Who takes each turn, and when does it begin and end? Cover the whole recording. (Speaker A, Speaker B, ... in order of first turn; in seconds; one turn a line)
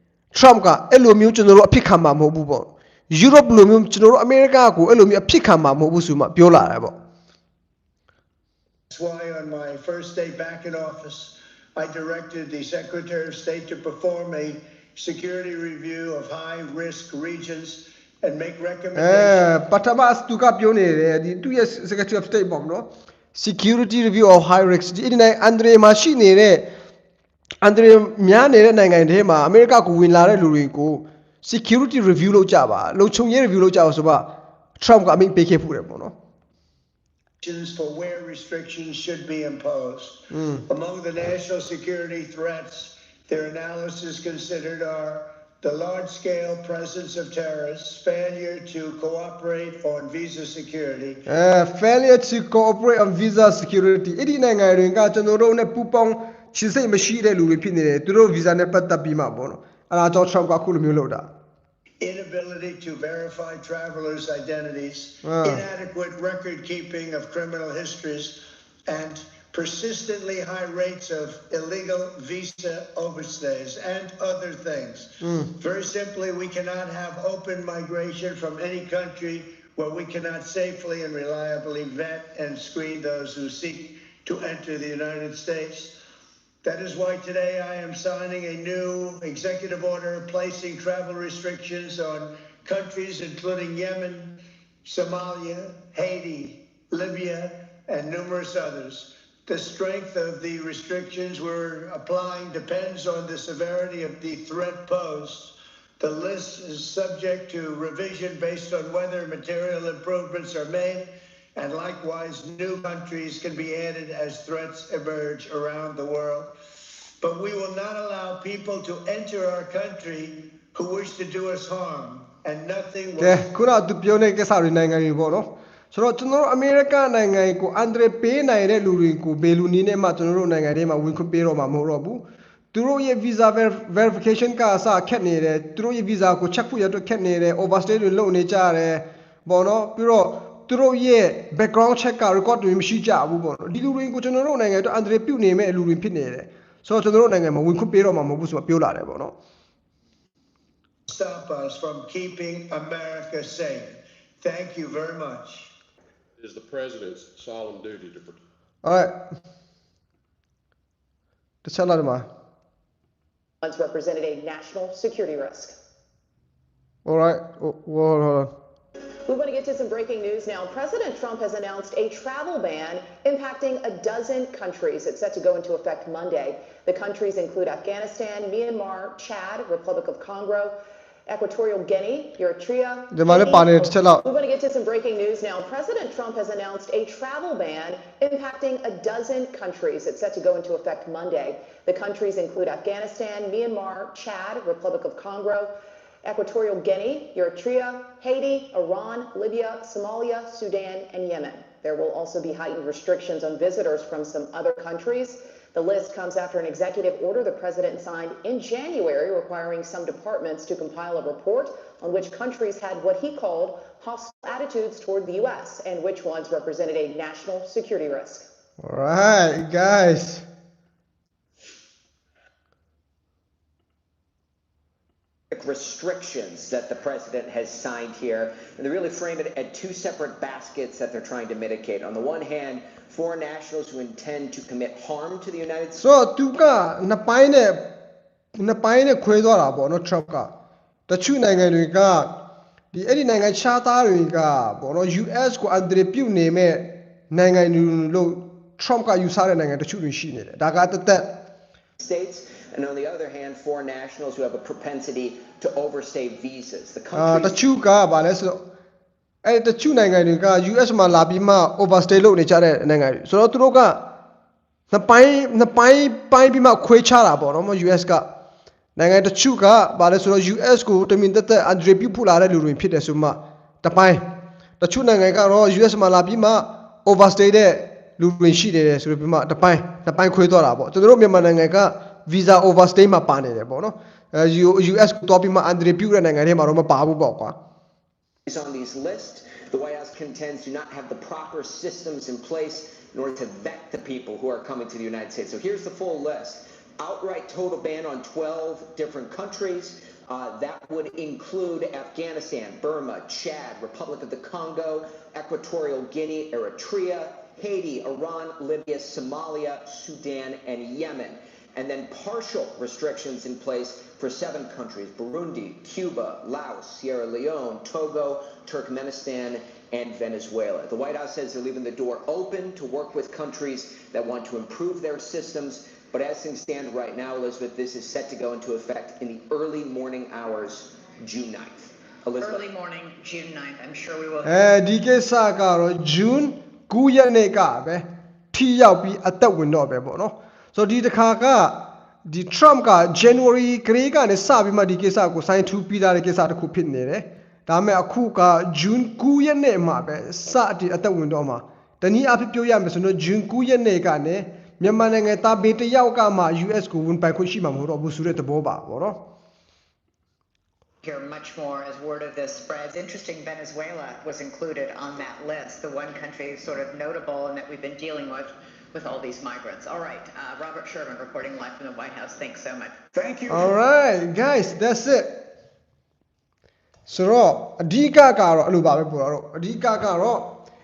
Speaker A: 0.3-7.0
Speaker B: 8.9-19.5
Speaker A: 19.0-26.7
Speaker A: 27.6-36.1
Speaker B: 37.4-51.2
Speaker A: 40.3-40.6
Speaker A: 51.3-61.3
Speaker B: 62.0-86.0
Speaker A: 65.2-65.6
Speaker A: 75.2-75.5
Speaker B: 86.6-116.5
Speaker B: 117.2-123.5
Speaker A: 123.2-149.3
Speaker B: 151.1-155.7
Speaker C: 156.4-158.4
Speaker A: 158.8-159.2
Speaker A: 161.6-162.3
Speaker D: 163.6-165.8
Speaker A: 167.1-168.5
Speaker D: 169.3-180.8
Speaker D: 181.3-195.7
Speaker A: 183.1-184.2
Speaker D: 196.2-218.5
Speaker A: 218.8-220.4
Speaker E: 225.5-236.1
Speaker A: 236.0-237.9
Speaker A: 238.6-240.5
Speaker A: 241.1-242.3
Speaker A: 242.9-251.4
Speaker E: 252.0-257.6
Speaker A: 257.1-258.6
Speaker A: 259.4-264.1
Speaker A: 264.9-268.3
Speaker A: 269.0-287.6
Speaker E: 288.5-332.7
Speaker F: 332.4-334.6
Speaker A: 334.4-359.2
Speaker F: 361.0-373.0
Speaker B: 373.1-373.8
Speaker A: 373.5-375.4
Speaker A: 377.1-380.6